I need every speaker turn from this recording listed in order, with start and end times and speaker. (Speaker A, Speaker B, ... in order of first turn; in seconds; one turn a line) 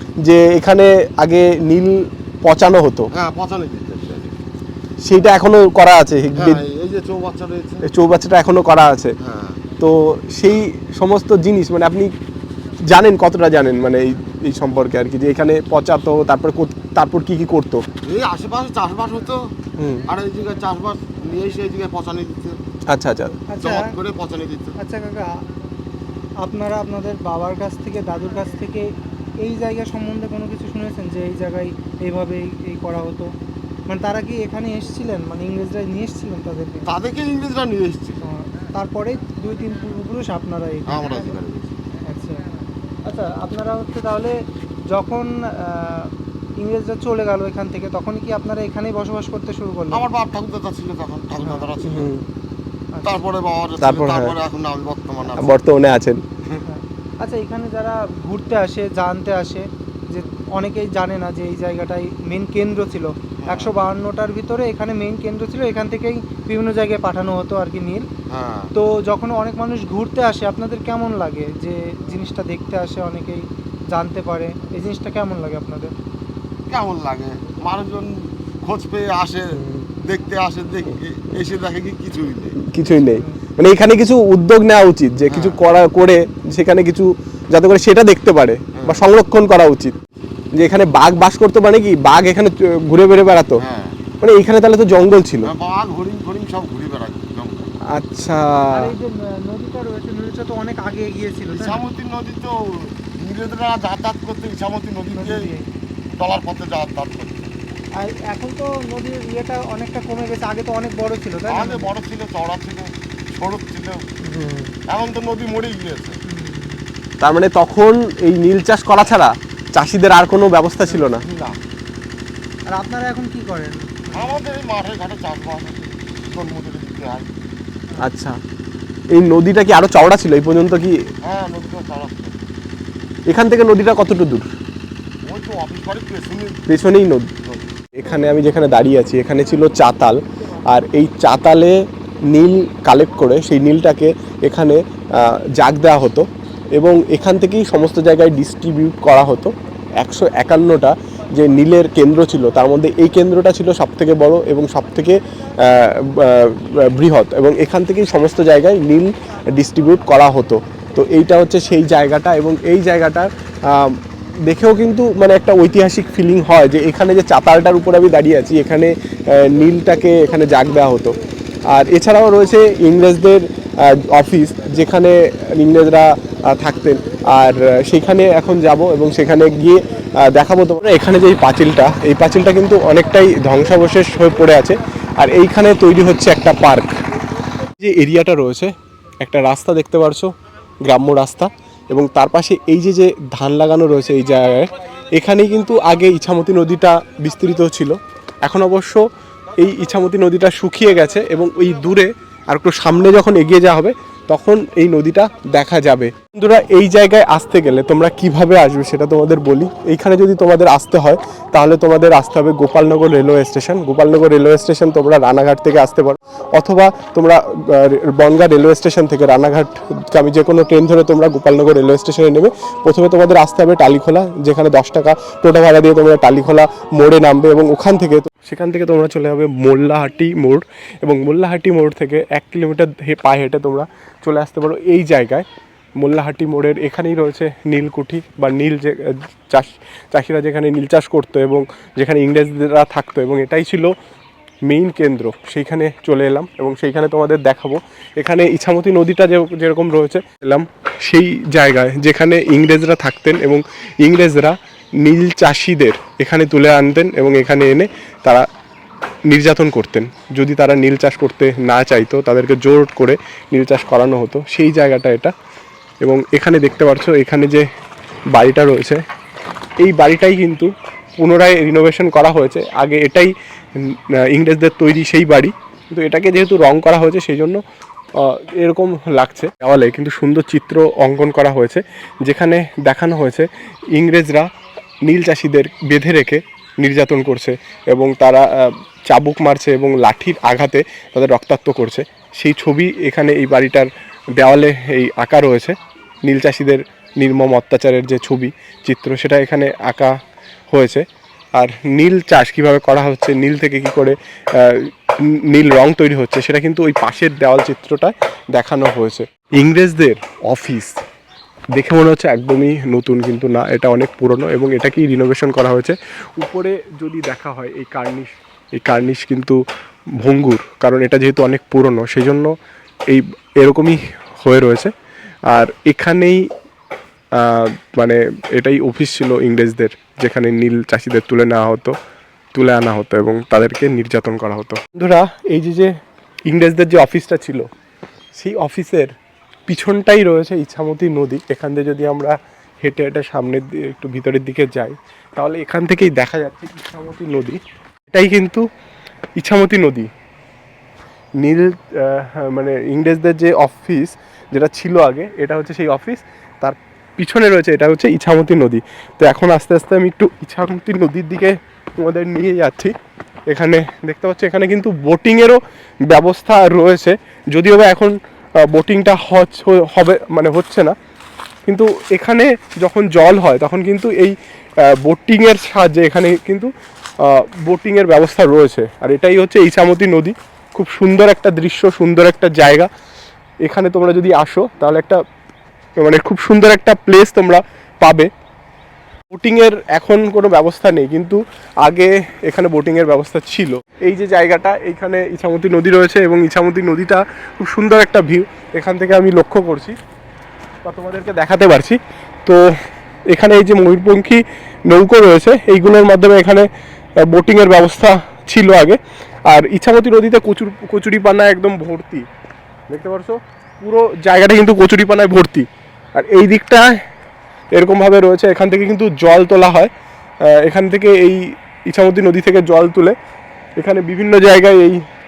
Speaker A: 0.2-3.1
Speaker B: 3.1-4.4
Speaker A: 5.0-6.6
Speaker B: 6.3-7.9
Speaker A: 7.8-9.2
Speaker B: 9.2-9.6
Speaker A: 9.8-12.1
Speaker A: 12.8-17.8
Speaker B: 18.1-19.6
Speaker A: 19.8-20.1
Speaker B: 20.1-22.6
Speaker A: 22.9-23.4
Speaker C: 23.5-23.9
Speaker B: 23.6-24.8
Speaker C: 24.8-25.3
Speaker C: 26.4-28.9
Speaker C: 29.4-33.3
Speaker C: 33.9-36.9
Speaker B: 36.9-38.2
Speaker C: 38.2-41.4
Speaker B: 40.9-41.8
Speaker C: 42.1-42.5
Speaker C: 43.0-50.0
Speaker B: 49.9-52.1
Speaker A: 51.9-52.2
Speaker C: 52.9-53.2
Speaker B: 53.0-55.6
Speaker A: 53.8-54.4
Speaker A: 55.4-56.2
Speaker C: 56.7-68.1
Speaker B: 63.4-63.7
Speaker B: 68.3-68.7
Speaker C: 68.8-75.9
Speaker B: 76.7-82.6
Speaker A: 79.6-79.8
Speaker A: 82.6-90.0
Speaker C: 82.9-83.4
Speaker B: 85.3-85.6
Speaker B: 88.8-89.0
Speaker A: 90.5-93.6
Speaker B: 93.6-94.0
Speaker A: 94.2-95.5
Speaker B: 95.4-97.8
Speaker A: 97.9-98.9
Speaker C: 98.7-101.8
Speaker B: 101.5-105.6
Speaker C: 105.2-105.7
Speaker B: 106.2-107.5
Speaker C: 108.0-111.9
Speaker B: 111.5-114.2
Speaker A: 114.4-114.7
Speaker B: 114.9-116.2
Speaker C: 116.3-116.9
Speaker A: 117.2-121.2
Speaker B: 121.2-121.6
Speaker C: 122.7-124.4
Speaker B: 124.1-127.3
Speaker A: 128.0-128.4
Speaker A: 129.1-131.0
Speaker B: 131.2-132.5
Speaker A: 133.3-134.5
Speaker B: 135.2-136.7
Speaker A: 136.7-137.3
Speaker B: 137.4-137.7
Speaker A: 138.0-141.8
Speaker A: 142.3-171.2
Speaker A: 171.7-186.9
Speaker A: 187.8-190.3
Speaker A: 190.8-199.0
Speaker A: 199.6-235.5
Speaker A: 236.0-243.9
Speaker A: 244.7-258.5
Speaker A: 259.3-265.3
Speaker A: 266.0-267.7
Speaker A: 268.3-269.0
Speaker A: 269.8-277.6
Speaker A: 278.2-284.5
Speaker A: 285.1-300.2
Speaker A: 300.7-311.0
Speaker A: 311.8-319.6
Speaker A: 320.2-322.5
Speaker A: 323.1-324.9
Speaker A: 325.5-326.5
Speaker A: 327.4-331.9
Speaker A: 332.5-335.9
Speaker A: 336.5-337.7
Speaker A: 338.4-339.1
Speaker A: 339.7-347.6
Speaker A: 348.1-348.6
Speaker A: 349.4-350.1
Speaker A: 351.4-362.9
Speaker A: 363.5-370.9
Speaker A: 371.7-376.7
Speaker A: 377.2-382.9
Speaker A: 383.6-385.2
Speaker A: 386.0-388.3
Speaker A: 389.3-400.0
Speaker A: 400.9-402.7
Speaker A: 403.3-406.7
Speaker A: 407.2-412.3
Speaker A: 412.9-417.0
Speaker A: 417.7-419.9
Speaker A: 420.5-423.1
Speaker A: 423.8-425.0